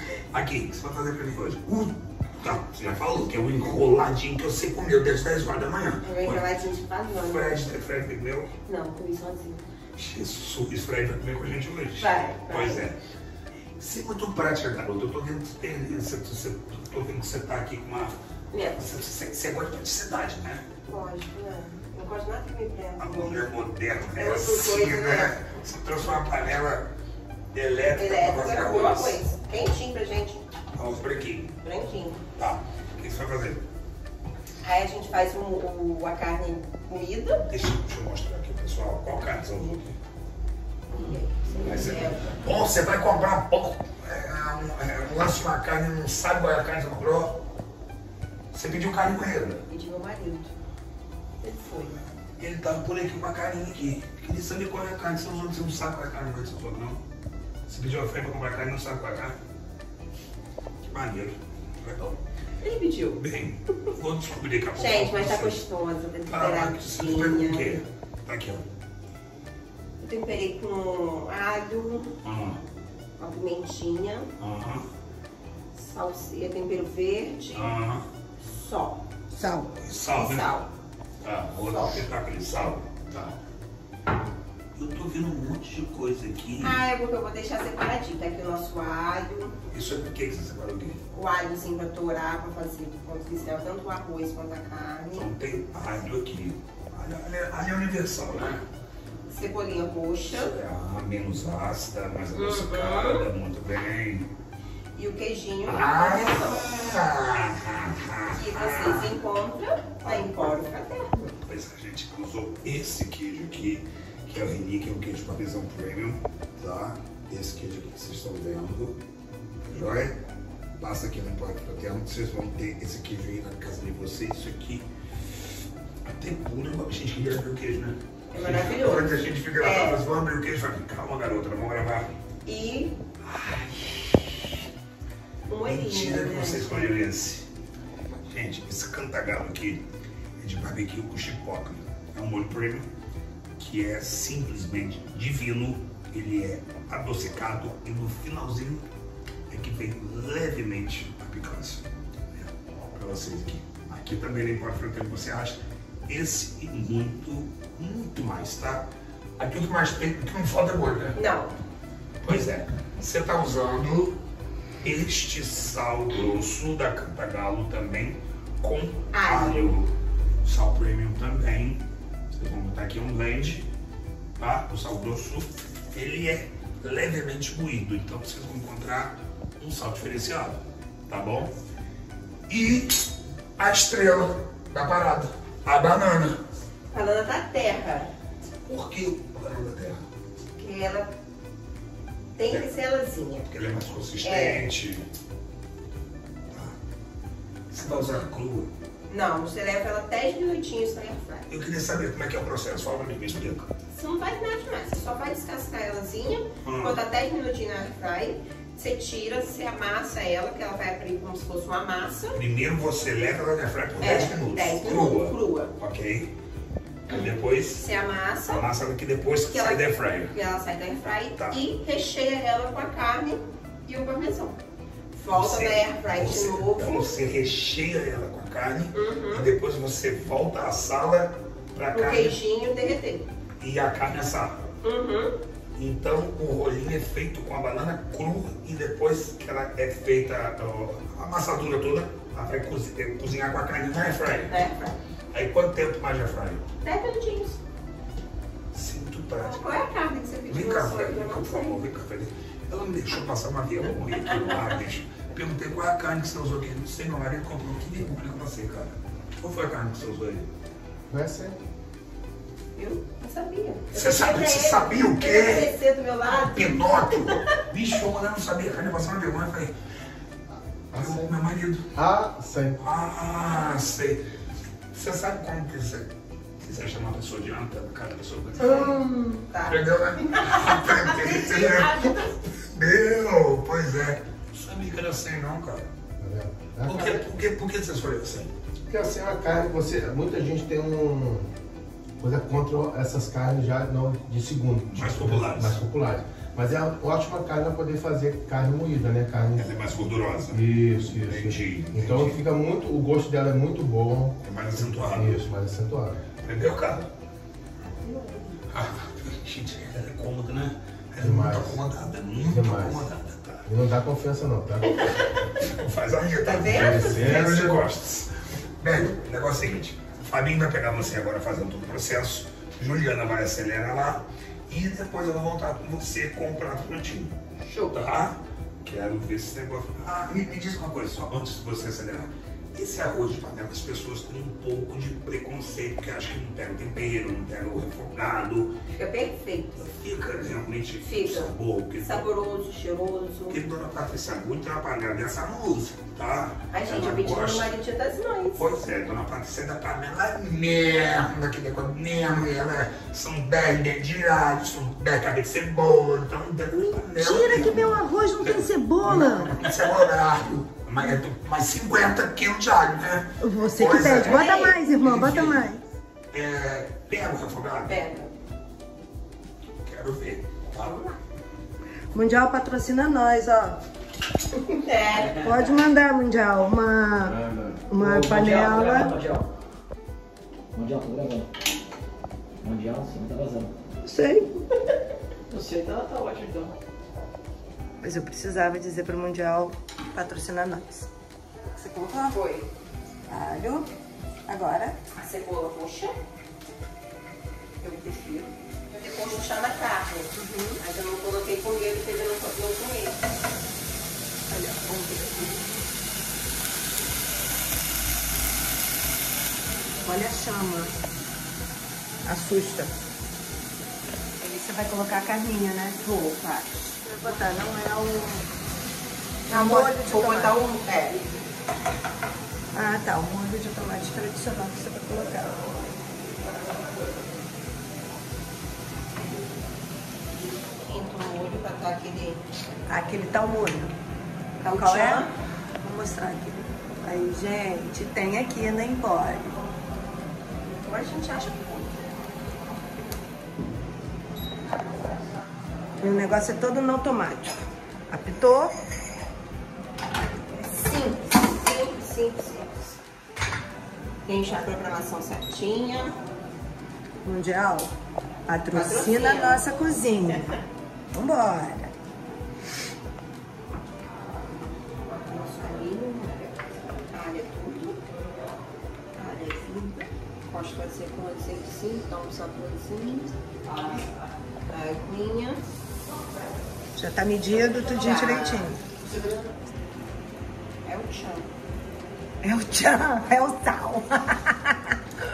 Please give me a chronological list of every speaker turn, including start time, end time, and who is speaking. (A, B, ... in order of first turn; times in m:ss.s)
0:00.3-0:06.6 A
0:06.0-0:07.6 B
0:07.2-0:08.5 A
0:08.7-0:09.6 B
0:10.0-0:13.0 A
0:12.0-0:12.8 B
0:13.8-0:18.2 A
0:18.5-0:18.8 B
0:18.7-0:20.7 A
0:20.9-0:23.5 B
0:23.0-0:26.9 A
0:24.2-0:25.4 B
0:27.5-0:29.2 A
0:28.0-0:30.4 B
0:30.8-0:31.6 A
0:31.6-0:32.2 B
0:32.4-0:33.6 A
0:34.6-0:37.4 B
0:37.4-0:40.0 A
0:40.9-0:42.4 B
0:41.6-0:47.4 A
0:48.5-0:49.6 A
0:49.7-0:50.5 B
0:51.4-0:52.1 B
0:52.4-0:57.0 A
0:57.7-0:59.4 A
1:00.9-1:02.2 A
1:02.6-1:03.2 B
1:03.1-1:05.6 A
1:04.8-1:07.8 B
1:06.3-1:08.7 A
1:10.0-1:12.2 B
1:12.2-1:12.6 A
1:13.2-1:14.3 B
1:14.4-1:14.9 A
1:15.8-1:17.8 B
1:17.5-1:18.1 A
1:18.4-1:19.0 B
1:19.3-1:19.7 C
1:19.8-1:20.5 A
1:20.1-1:20.7 B
1:21.2-1:23.4 A
1:24.8-1:26.9 A
1:26.6-1:29.6 B
1:29.7-1:31.0 A
1:31.1-1:35.3 B
1:35.1-1:38.7 A
1:39.3-1:40.6 B
1:40.3-1:44.3 A
1:42.4-1:43.2 B
1:45.0-1:46.7 B
1:45.6-1:49.2 A
1:48.3-1:51.3 B
1:50.0-1:50.7 A
1:51.4-1:59.0 A
1:59.7-2:00.2 A
2:00.8-2:04.9 A
2:06.0-2:12.1 A
2:08.3-2:10.1 B
2:12.5-2:13.0 B
2:13.2-2:14.4 A
2:15.5-2:17.0 B
2:15.6-2:17.5 A
2:18.3-2:19.9 A
2:20.4-2:22.9 A
2:23.6-2:28.9 A
2:29.5-2:31.8 A
2:32.3-2:41.2 A
2:41.2-2:41.5 B
2:42.2-2:44.2 A
2:44.8-2:49.9 A
2:49.1-2:49.7 B
2:50.4-2:53.7 A
2:54.4-3:01.5 A
3:02.5-3:06.4 A
3:06.9-3:08.1 B
3:08.7-3:10.0 A
3:10.6-3:11.1 B
3:12.4-3:13.4 B
3:13.4-3:15.1 A
3:14.2-3:14.7 B
3:16.5-3:16.8 A
3:17.7-3:18.7 A
3:19.1-3:21.5 B
3:21.5-3:23.7 A
3:23.9-3:32.4 B
3:26.6-3:27.0 A
3:32.3-3:36.3 A
3:34.0-3:35.7 B
3:37.1-3:37.9 A
3:37.8-3:38.7 B
3:38.4-3:40.4 A
3:39.5-3:44.6 B
3:41.1-3:41.6 A
3:45.1-3:47.1 B
3:45.3-3:52.4 A
3:48.9-3:49.5 B
3:51.9-3:53.3 B
3:53.6-3:54.6 A
3:54.8-3:55.4 B
3:55.8-4:04.6 A
4:04.5-4:05.0 B
4:05.3-4:06.6 A
4:06.8-4:07.6 B
4:08.7-4:09.9 A
4:09.4-4:11.8 B
4:10.5-4:20.5 A
4:21.1-4:21.6 D
4:22.8-4:27.5 B
4:23.9-4:25.7 A
4:26.3-4:29.7 A
4:30.9-4:31.3 D
4:30.9-4:31.9 A
4:31.9-4:32.8 D
4:32.8-4:34.2 A
4:34.9-4:39.0 A
4:38.6-4:42.3 B
4:38.6-4:39.4 C
4:39.7-4:45.9 A
4:46.2-4:47.2 D
4:46.8-4:48.5 A
4:48.9-4:51.5 D
4:52.2-4:59.7 D
4:54.9-4:55.8 A
4:59.6-5:02.4 A
5:00.5-5:04.4 D
5:04.4-5:05.5 A
5:05.0-5:06.2 D
5:06.4-5:07.1 A
5:07.8-5:08.6 B
5:08.7-5:13.7 A
5:11.2-5:11.8 D
5:12.4-5:13.1 D
5:13.6-5:15.0 D
5:15.0-5:15.3 B
5:15.5-5:27.4 A
5:16.4-5:17.5 B
5:16.6-5:17.9 D
5:27.6-5:28.1 B
5:27.9-5:38.8 A
5:38.9-5:39.9 B
5:39.8-5:42.3 A
5:41.0-5:43.6 B
5:43.5-5:47.7 A
5:46.7-5:48.6 B
5:48.6-6:05.7 A
5:57.1-5:59.7 C
6:03.4-6:05.8 C
6:04.1-6:04.8 B
6:06.3-6:08.0 A
6:07.8-6:08.3 B
6:09.8-6:11.0 A
6:10.8-6:11.2 B
6:12.1-6:13.8 C
6:14.6-6:15.6 B
6:15.4-6:19.1 C
6:17.3-6:17.8 D
6:17.9-6:19.5 E
6:20.7-6:21.5 E
6:22.6-6:23.7 E
6:24.0-6:24.5 C
6:25.5-6:26.8 E
6:28.0-6:31.1 C
6:31.7-6:32.4 C
6:32.2-6:32.7 B
6:33.3-6:33.9 C
6:34.5-6:35.0 C
6:35.2-6:36.2 B
6:37.8-6:43.2 B
6:40.4-6:40.8 C
6:44.5-6:45.6 C
6:50.0-6:50.9 C
6:52.2-6:52.9 C
6:54.4-6:56.1 C
6:56.0-6:56.9 B
6:57.0-6:58.5 C
6:59.5-7:00.5 C
6:59.5-7:01.2 B
7:02.7-7:05.7 C
7:10.8-7:12.4 B
7:12.9-7:13.9 C
7:14.6-7:15.3 B
7:14.8-7:15.3 C
7:15.8-7:19.6 C
7:20.8-7:22.0 B
7:26.0-7:28.7 C
7:30.6-7:32.8 B
7:34.3-7:36.2 B
7:37.2-7:37.9 C
7:38.5-7:40.6 C
7:38.7-7:39.7 B
7:41.1-7:41.9 C
7:45.1-7:46.6 B
7:47.1-7:48.0 B
7:49.2-7:53.3 B
7:54.7-7:55.6 B
7:57.0-7:58.8 C
7:57.5-7:58.8 B
8:00.8-8:01.5 B
8:02.4-8:05.0 C